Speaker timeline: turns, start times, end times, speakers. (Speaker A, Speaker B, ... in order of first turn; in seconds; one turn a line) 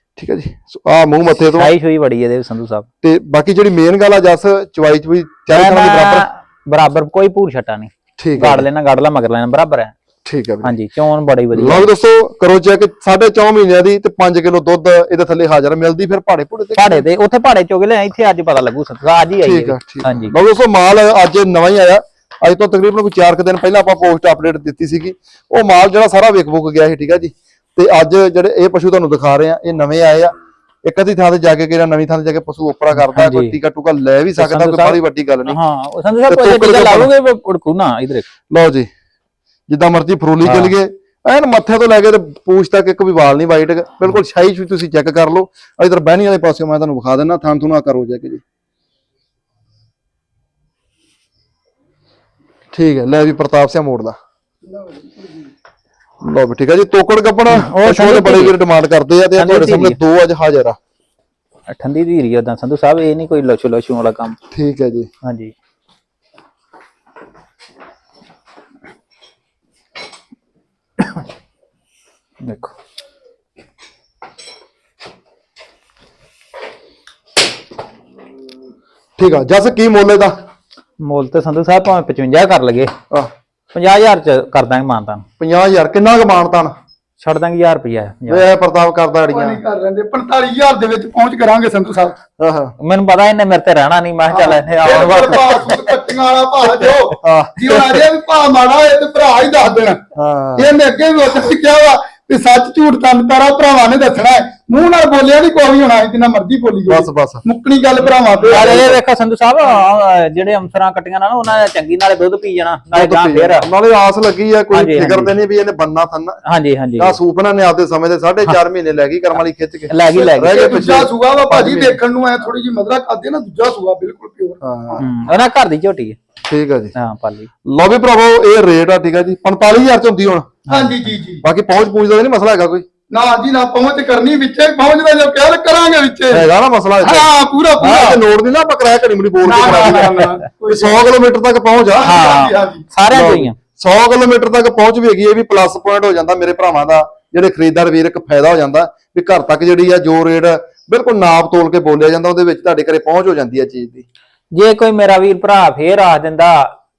Speaker A: 0.2-1.7
Speaker B: 1.5-2.9
Speaker A: 3.0-6.2
Speaker B: 5.5-9.9
Speaker A: 8.2-8.6
Speaker A: 10.2-10.7
Speaker B: 10.6-11.9
Speaker A: 11.5-17.0
Speaker B: 16.8-20.3
Speaker A: 19.4-30.3
Speaker A: 30.8-35.6
Speaker B: 32.9-33.6
Speaker B: 34.4-38.3
Speaker A: 36.3-37.1
Speaker A: 38.5-38.9
Speaker A: 39.7-48.4
Speaker B: 40.4-40.7
Speaker A: 52.7-54.1
Speaker C: 54.7-55.5
Speaker A: 56.2-60.8
Speaker B: 57.5-58.5
Speaker B: 59.4-60.0
Speaker B: 61.7-64.4
Speaker A: 64.5-65.1
Speaker B: 65.2-65.5
Speaker B: 72.4-72.7
Speaker A: 79.2-80.3
Speaker B: 81.0-82.9
Speaker B: 83.7-85.2
Speaker A: 85.4-86.7
Speaker B: 87.2-88.4
Speaker A: 88.3-89.6
Speaker C: 89.3-92.2
Speaker A: 92.4-92.7
Speaker B: 92.8-95.7
Speaker C: 94.3-100.0
Speaker A: 97.2-98.0
Speaker A: 100.1-100.7
Speaker C: 100.6-108.7
Speaker A: 106.9-107.4
Speaker A: 108.5-109.0
Speaker B: 108.5-113.7
Speaker A: 112.9-116.4
Speaker B: 114.7-115.3
Speaker B: 116.5-117.2
Speaker A: 117.0-122.0
Speaker B: 119.9-120.7
Speaker C: 120.1-125.0
Speaker A: 124.6-125.0
Speaker B: 125.0-126.2
Speaker A: 126.5-126.9
Speaker B: 127.0-127.5
Speaker A: 127.7-130.5
Speaker B: 130.7-131.1
Speaker C: 130.7-131.4
Speaker A: 131.4-132.8
Speaker C: 133.1-136.4
Speaker A: 136.3-140.1
Speaker C: 137.0-138.2
Speaker C: 139.4-141.0
Speaker B: 139.5-140.4
Speaker A: 140.7-142.2
Speaker C: 141.9-142.8
Speaker B: 142.0-143.5
Speaker A: 143.1-154.1
Speaker B: 154.5-156.7